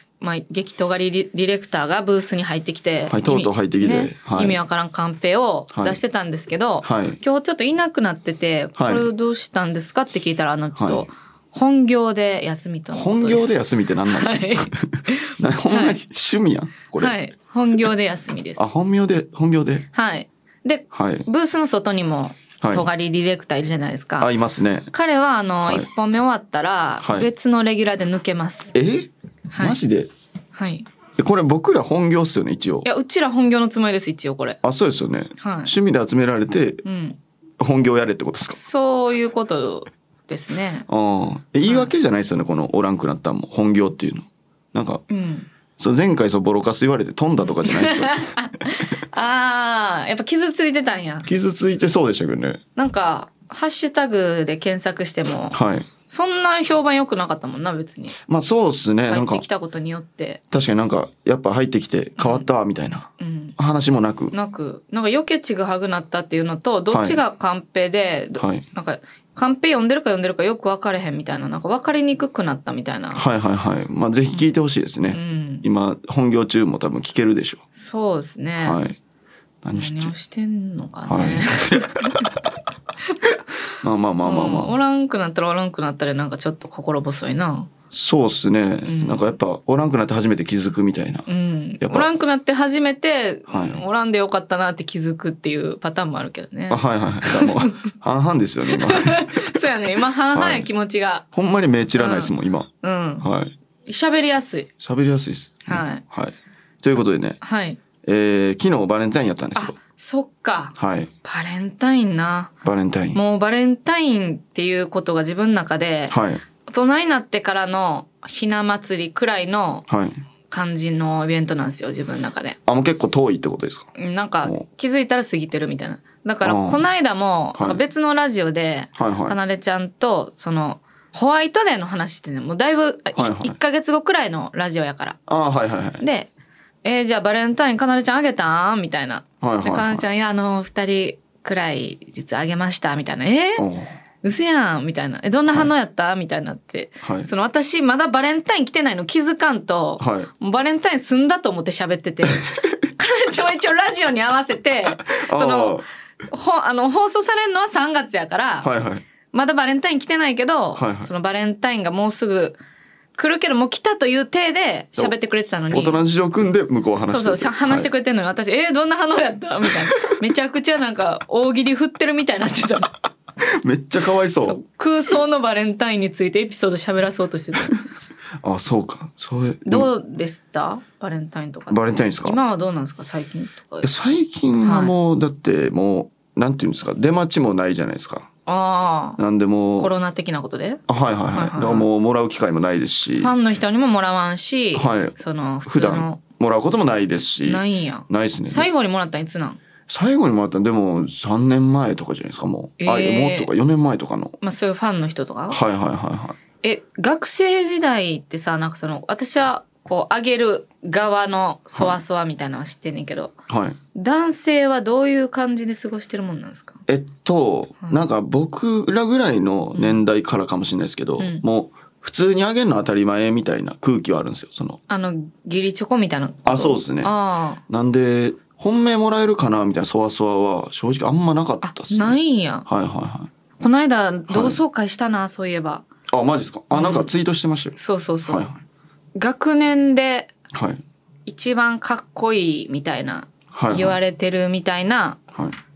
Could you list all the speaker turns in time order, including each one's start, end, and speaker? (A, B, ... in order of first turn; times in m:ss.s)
0:00.2-0:16.0 A
0:03.1-0:04.6 B
0:05.7-0:06.0 B
0:06.8-0:07.2 B
0:08.8-0:09.1 B
0:10.8-0:11.1 B
0:12.9-0:17.2 B
0:17.0-0:18.6 A
0:18.6-0:19.9 B
0:19.9-0:24.3 A
0:20.9-0:21.3 B
0:22.6-0:22.9 B
0:24.2-0:24.9 B
0:24.9-0:28.8 A
0:27.0-0:27.3 B
0:28.7-0:30.1 B
0:29.5-0:29.8 A
0:30.6-0:30.9 A
0:31.2-0:32.9 B
0:32.8-0:34.6 A
0:34.6-0:36.8 B
0:35.4-0:35.7 A
0:36.8-0:37.2 A
0:37.6-0:38.6 B
0:38.6-0:40.9 A
0:40.9-0:45.0 B
0:41.6-0:41.9 A
0:45.1-0:45.5 A
0:45.8-0:48.3 B
0:47.4-0:51.3 A
0:51.2-0:52.6 B
0:52.8-0:55.6 A
0:55.5-0:55.9 B
0:56.1-0:58.2 A
0:58.2-0:59.4 B
0:59.1-1:00.4 A
1:00.5-1:04.3 B
1:02.2-1:02.5 A
1:03.2-1:03.6 A
1:04.3-1:13.2 A
1:06.9-1:07.2 B
1:08.4-1:08.7 B
1:13.2-1:17.6 B
1:15.1-1:15.6 A
1:17.8-1:18.8 A
1:18.6-1:19.0 B
1:19.6-1:20.1 B
1:19.8-1:22.3 A
1:21.1-1:22.4 B
1:23.8-1:24.8 B
1:24.2-1:27.7 A
1:27.9-1:31.3 B
1:28.9-1:29.3 A
1:31.3-1:37.8 A
1:31.8-1:32.1 B
1:33.5-1:33.8 B
1:36.7-1:39.6 B
1:38.7-1:41.3 A
1:40.3-1:40.7 B
1:41.3-1:42.7 B
1:42.0-1:43.3 A
1:43.2-1:43.5 B
1:43.9-1:44.7 A
1:44.8-1:47.4 B
1:45.7-1:46.0 A
1:47.4-1:47.8 A
1:48.0-1:49.8 B
1:49.6-1:52.6 A
1:50.8-1:51.1 B
1:52.6-1:53.2 B
1:53.1-1:59.8 A
1:56.1-1:56.4 B
1:59.9-2:00.2 B
2:00.5-2:02.6 A
2:02.7-2:03.9 B
2:04.0-2:15.2 A
2:06.4-2:06.9 B
2:07.6-2:07.8 B
2:09.0-2:09.4 B
2:13.2-2:13.6 B
2:15.3-2:16.0 B
2:16.0-2:16.3 A
2:16.8-2:23.7 A
2:19.4-2:20.0 B
2:23.6-2:24.0 B
2:24.2-2:38.7 A
2:27.0-2:27.3 B
2:30.0-2:30.3 B
2:32.4-2:32.8 B
2:35.1-2:35.8 B
2:38.6-2:39.0 B
2:39.3-2:42.6 A
2:40.8-2:41.1 B
2:43.2-2:46.0 A
2:45.7-2:47.9 B
2:47.1-2:52.9 A
2:53.4-2:54.6 B
2:54.4-2:57.8 A
2:58.4-2:59.9 B
2:59.6-3:03.9 A
3:01.7-3:02.4 B
3:03.8-3:08.3 B
3:04.6-3:04.9 A
3:08.5-3:09.2 A
3:09.2-3:09.9 B
3:09.8-3:10.8 A
3:10.9-3:13.4 B
3:11.3-3:11.9 A
3:13.2-3:16.2 A
3:14.7-3:18.7 B
3:17.4-3:19.6 A
3:19.9-3:24.4 B
3:22.8-3:23.5 A
3:24.4-3:25.6 A
3:25.5-3:26.4 B
3:26.6-3:33.4 A
3:33.5-3:33.8 B
3:33.9-3:36.8 A
3:36.9-3:44.8 B
3:39.7-3:40.0 A
3:41.2-3:41.4 A
3:44.9-3:47.6 A
3:46.4-3:47.1 B
3:47.7-3:53.3 B
3:51.6-3:52.7 A
3:53.6-3:55.8 A
3:54.3-3:54.6 B
3:56.1-3:58.6 B
3:56.7-3:57.1 A
3:57.8-3:58.5 A
3:59.2-4:00.3 A
4:00.5-4:00.8 B
4:01.3-4:05.2 A
4:03.5-4:04.0 B